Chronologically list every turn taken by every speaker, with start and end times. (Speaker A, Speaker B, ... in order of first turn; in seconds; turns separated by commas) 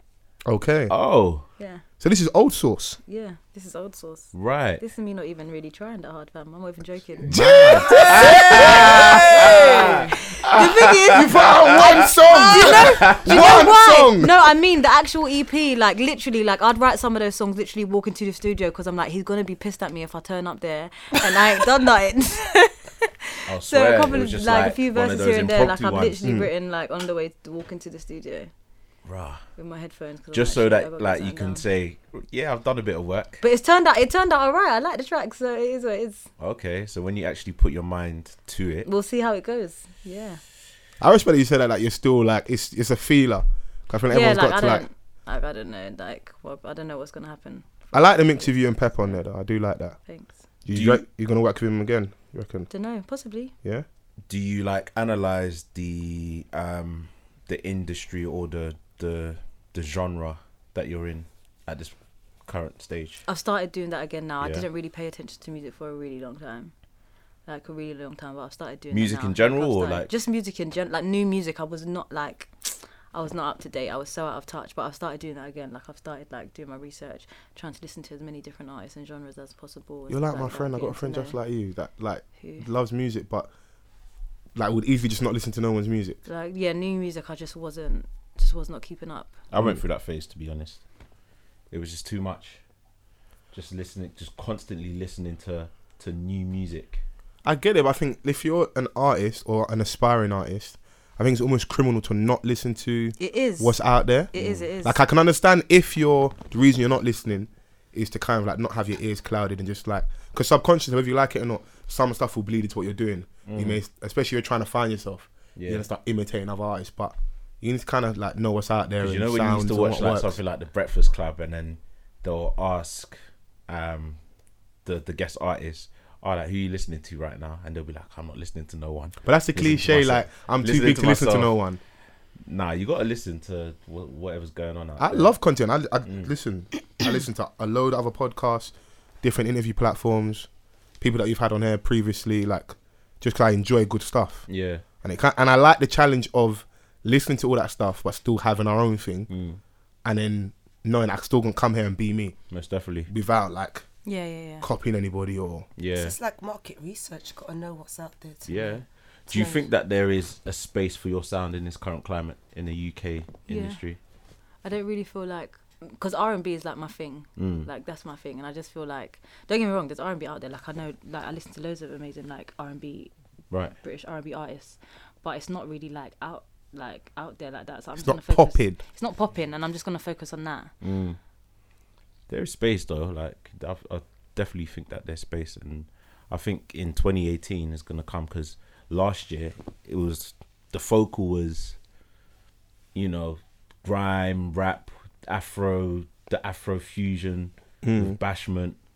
Speaker A: 0.4-0.9, Speaker B: 0.9-1.4, Speaker A: 2.0-3.0, Speaker C: 3.0-28.5, Speaker B: 4.3-4.8, Speaker A: 7.3-10.0, Speaker B: 7.3-12.1, Speaker D: 9.6-9.9, Speaker A: 11.1-14.3, Speaker B: 12.6-13.5, Speaker B: 23.5-26.2, Speaker A: 26.2-26.5, Speaker B: 29.0-29.4, Speaker C: 29.6-31.6, Speaker B: 30.3-33.4, Speaker C: 33.4-36.2, Speaker B: 36.4-38.9, Speaker C: 38.8-40.4, Speaker A: 41.0-44.8, Speaker C: 44.1-49.1, Speaker A: 47.9-50.0, Speaker C: 50.1-50.3, Speaker A: 50.6-52.7, Speaker B: 50.7-51.0, Speaker C: 52.7-53.5, Speaker B: 54.3-61.9, Speaker B: 62.5-63.2, Speaker C: 63.2-66.7, Speaker C: 67.5-81.3, Speaker B: 68.9-70.1, Speaker A: 80.1-83.5, Speaker C: 82.4-82.7, Speaker A: 84.5-86.2, Speaker C: 86.2-89.3, Speaker B: 89.5-90.8, Speaker B: 91.7-92.6, Speaker B: 93.5-97.0, Speaker A: 97.4-120.3, Speaker C: 103.2-103.8, Speaker C: 104.3-105.0, Speaker B: 104.4-104.6, Speaker B: 113.5-113.8, Speaker B: 115.5-115.8, Speaker B: 119.0-123.2, Speaker B: 123.7-124.2, Speaker B: 124.8-131.5, Speaker A: 129.2-131.8, Speaker B: 132.4-135.3, Speaker A: 135.0-140.5, Speaker A: 141.0-144.4, Speaker B: 144.5-144.8, Speaker A: 145.0-149.3, Speaker B: 149.3-149.6, Speaker A: 150.0-152.3, Speaker B: 152.5-153.1, Speaker A: 153.1-153.8, Speaker C: 154.0-154.7, Speaker A: 154.6-155.7, Speaker B: 155.8-156.2, Speaker D: 155.9-158.5, Speaker B: 158.4-164.0, Speaker D: 159.3-159.6, Speaker C: 163.5-163.8, Speaker C: 164.6-173.1, Speaker B: 167.4-167.7, Speaker B: 173.5-173.8, Speaker C: 173.8-180.7, Speaker A: 178.0-178.8, Speaker B: 180.8-181.2, Speaker B: 182.3-191.8, Speaker B: 192.9-198.8, Speaker A: 197.8-198.2